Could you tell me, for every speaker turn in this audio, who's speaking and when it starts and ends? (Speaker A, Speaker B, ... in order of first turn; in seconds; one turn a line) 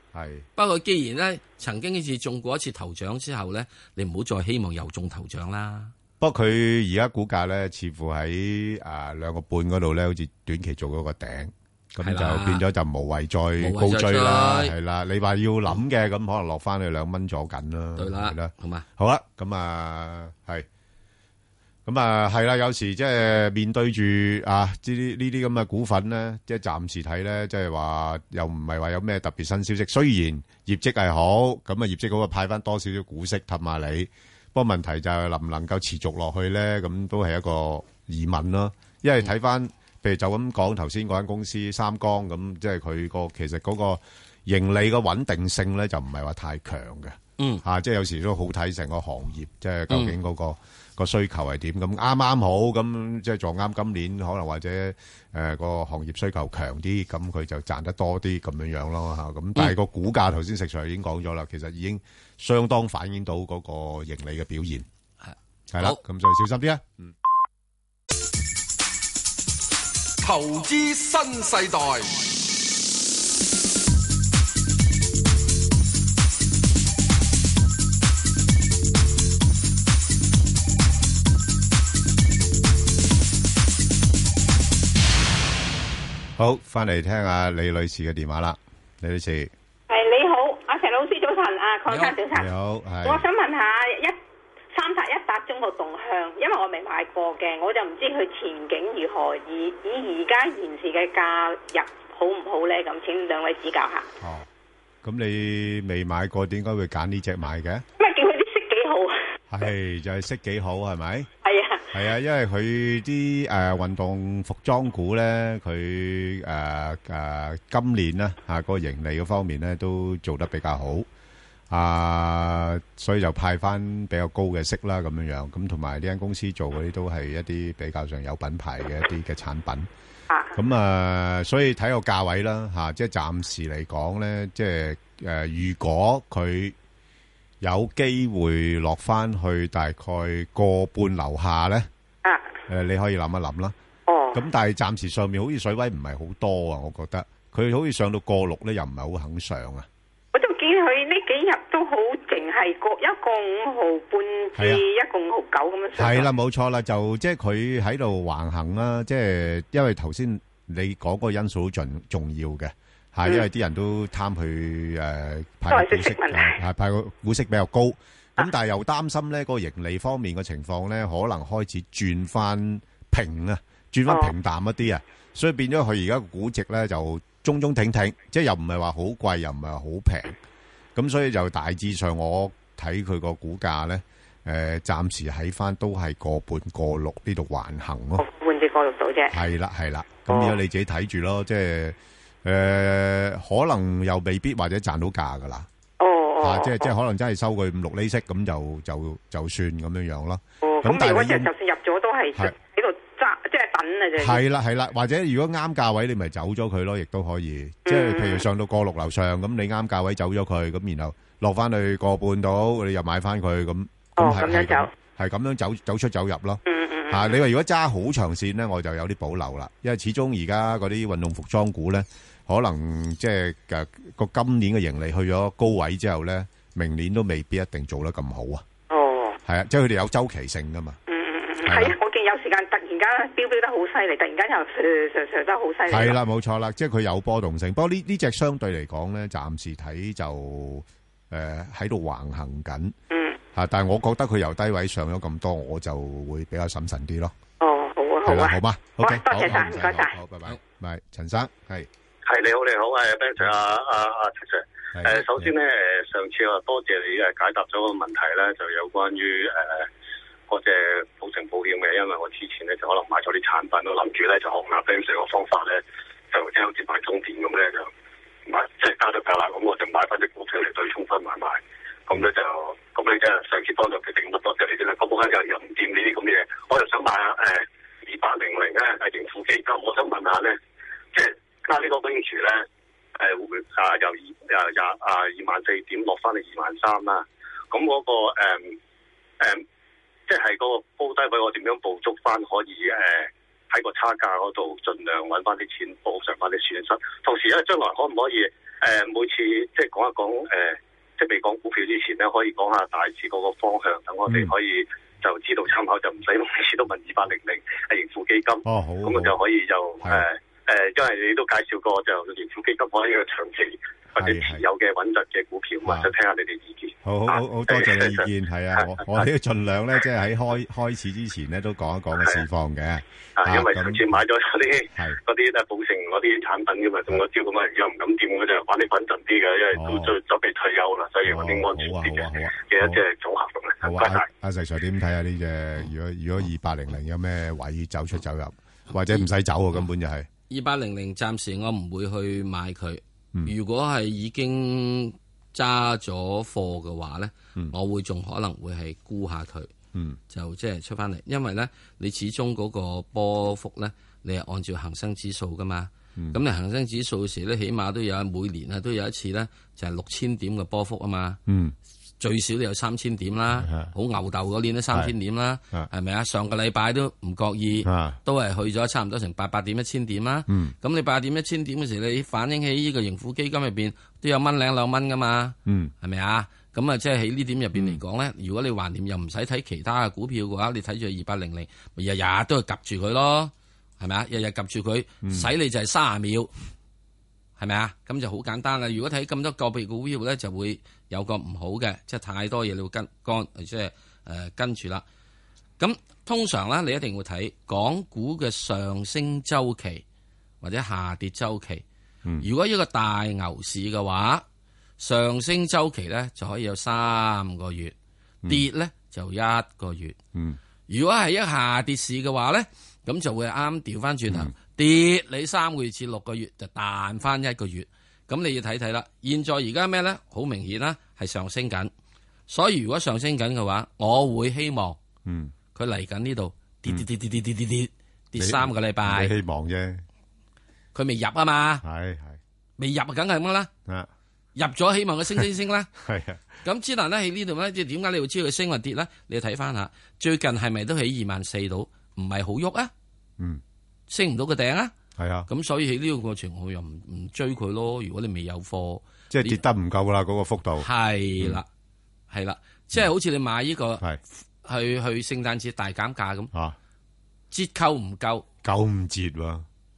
Speaker A: 0.1-0.5
Speaker B: 0.6-5.9
Speaker A: 6.2-20.7
Speaker B: 12.0-12.6
Speaker B: 13.6-14.7
Speaker B: 18.0-18.9
Speaker A: 21.9-64.9
Speaker B: 47.4-47.6
Speaker B: 49.9-50.1
Speaker B: 65.2-66.0
Speaker A: 65.7-67.1
Speaker C: 70.2-72.2
Speaker A: 86.4-89.5
Speaker D: 89.9-92.5
Speaker B: 91.9-92.2
Speaker A: 92.3-93.3
Speaker D: 93.0-94.2
Speaker D: 94.7-104.1
Speaker A: 104.2-104.5
Speaker A: 105.0-107.8
Speaker D: 108.0-109.2
Speaker A: 109.5-111.3
Speaker D: 111.4-112.0
Speaker A: 111.9-121.1
Speaker A: 121.7-129.9
Speaker A: 130.6-136.8
Speaker A: 137.6-141.9
Speaker D: 142.2-142.6
Speaker A: 142.7-143.8
Speaker D: 144.1-144.4
Speaker A: 144.3-149.9
Speaker D: 150.3-156.3
Speaker A: 154.6-154.8
Speaker A: 156.0-180.4
Speaker D: 165.7-166.6
Speaker D: 174.1-174.3
Speaker A: 181.0-188.2
Speaker D: 188.2-189.4
Speaker A: 189.3-195.7
Speaker D: 190.3-190.6
Speaker D: 196.0-196.9
Speaker A: 196.4-201.5
Speaker D: 200.6-204.4
Speaker A: 204.2-228.6
Speaker D: 207.9-208.5
Speaker D: 214.2-214.9
Speaker D: 216.7-217.4
Speaker D: 228.9-229.4
Speaker A: 229.4-231.0
Speaker D: 231.1-236.2
Speaker A: 231.7-231.9
Speaker A: 235.9-242.9
Speaker D: 243.1-243.4
Speaker A: 243.5-247.3
Speaker D: 247.6-250.2
Speaker A: 248.2-251.9
Speaker E: 252.3-259.9
Speaker A: 254.9-255.5
Speaker E: 260.5-267.9
Speaker E: 268.5-280.6
Speaker E: 281.1-282.6
Speaker E: 283.2-288.8
Speaker E: 290.3-318.3
Speaker A: 308.6-309.3
Speaker A: 314.1-314.6
Speaker A: 315.9-316.1
Speaker A: 317.0-324.2
Speaker E: 323.4-334.2
Speaker A: 329.7-330.2
Speaker A: 331.2-333.0
Speaker A: 333.8-340.3
Speaker B: 340.5-349.7
Speaker A: 349.9-350.2
Speaker B: 350.3-361.4
Speaker A: 361.5-361.8
Speaker B: 362.2-386.5
Speaker A: 363.5-363.9
Speaker A: 367.8-368.2
Speaker A: 370.5-370.7
Speaker A: 375.7-375.9
Speaker A: 377.7-378.0
Speaker A: 385.2-385.5
Speaker B: 387.6-395.0
Speaker B: 395.8-400.0
Speaker B: 400.6-401.8
Speaker B: 402.4-404.4
Speaker B: 405.0-407.9
Speaker B: 408.5-410.2
Speaker B: 410.9-421.9
Speaker B: 422.5-425.0
Speaker A: 425.2-425.5
Speaker B: 425.8-429.3
Speaker A: 428.4-430.0
Speaker B: 430.9-431.8
Speaker A: 431.8-432.4
Speaker B: 432.8-433.7
Speaker B: 434.6-435.9
Speaker A: 435.9-436.4
Speaker B: 436.6-442.9
Speaker B: 444.1-444.9
Speaker A: 445.2-445.5
Speaker B: 445.5-449.6
Speaker A: 449.3-450.9
Speaker B: 450.8-451.7
Speaker B: 452.3-454.0
Speaker B: 454.6-456.5
Speaker A: 456.5-456.8
Speaker B: 457.5-458.4
Speaker A: 458.6-459.7